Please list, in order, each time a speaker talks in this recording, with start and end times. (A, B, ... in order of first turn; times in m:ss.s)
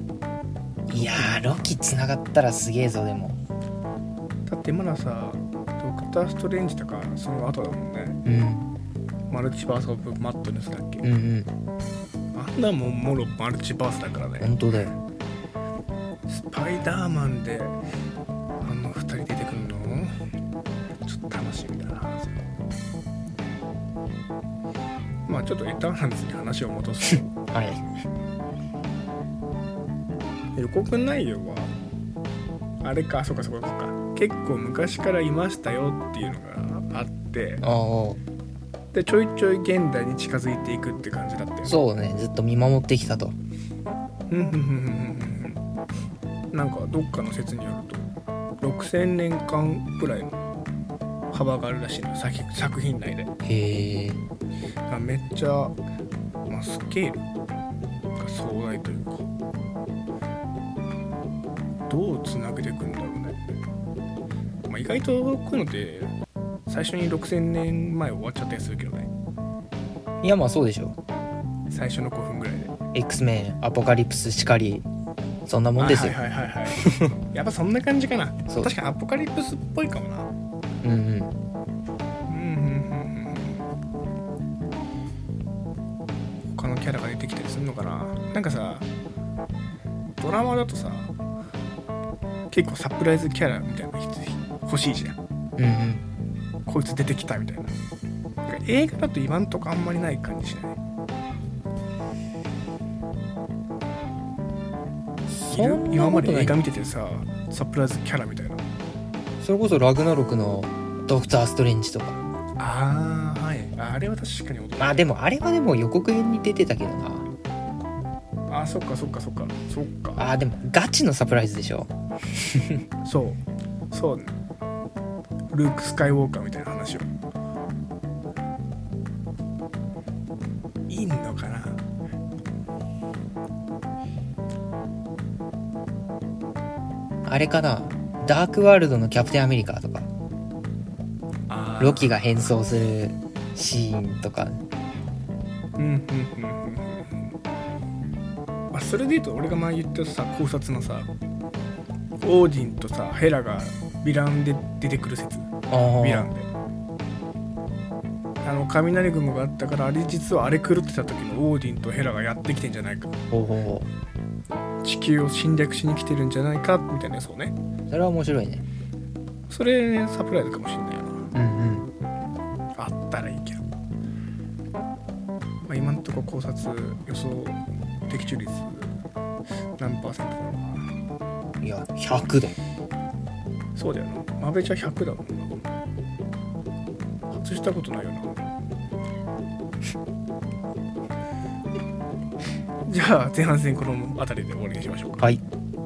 0:00.9-0:01.8 A
0:00.9-0:03.4 B
0:04.5-0:08.2 A
0:08.2-0:08.7 B
0:09.3-0:11.0 A
0:11.0-0:11.5 B
0:12.3-0:14.5 A
0:14.4-0:15.0 B
0:16.3-0:17.8 A
0:18.6-0:20.1 A
0:21.0-0:22.4 A
0:25.2-0:27.5 A
0:27.1-0:27.8 B
0:30.6-0:31.7 A
0:32.8-0:37.6 A
0:37.6-0:38.2 B
0:38.9-0:41.8 A
0:41.6-0:43.4 B
0:44.3-0:45.6 A
0:46.5-0:48.1 A
0:48.6-0:50.4 A
0:51.3-0:53.3 A
0:53.4-0:54.2 B
0:54.9-0:55.8 A
0:56.5-0:57.2 A
0:58.2-0:59.3 A
1:01.9-1:03.4 A
1:04.7-1:06.1 A
1:06.7-1:09.1 A
1:10.2-1:11.0 B
1:11.7-1:12.7 A
1:12.9-1:14.9 B
1:15.4-1:16.2 B
1:15.8-1:20.3 A
1:16.8-1:17.1 B
1:20.8-1:21.3 B
1:22.3-1:23.6 A
1:26.5-1:28.9 A
1:30.2-1:31.1 A
1:32.5-1:35.2 A
1:35.6-1:36.0 B
1:36.6-1:37.7 A
1:38.4-1:40.8 A
1:45.3-1:46.6 B
1:45.5-1:48.6 A
1:49.4-1:52.2 B
1:52.6-1:55.1 A
1:54.8-1:57.3 B
1:58.5-2:00.2 A
2:00.2-2:01.9 B
2:02.5-2:02.8 B
2:03.0-2:03.4 A
2:03.9-2:04.3 A
2:05.5-2:07.1 A
2:10.9-2:11.8 A
2:17.2-2:20.1 B
2:21.5-2:22.5 A
2:21.8-2:24.6 B
2:25.8-2:27.2 A
2:28.7-2:31.1 A
2:32.2-2:35.5 A
2:35.7-2:36.3 B
2:36.0-2:36.5 A
2:38.4-2:43.2 A
2:43.3-2:43.9 B
2:44.8-2:47.5 A
2:47.9-2:48.6 B
2:49.5-2:51.3 A
2:51.3-2:51.9 B
2:52.8-2:53.6 A
2:55.7-2:58.9 A
2:59.8-3:00.8 A
3:01.6-3:02.6 B
3:03.8-3:05.6 A
3:07.3-3:08.4 A
3:12.9-3:15.2 A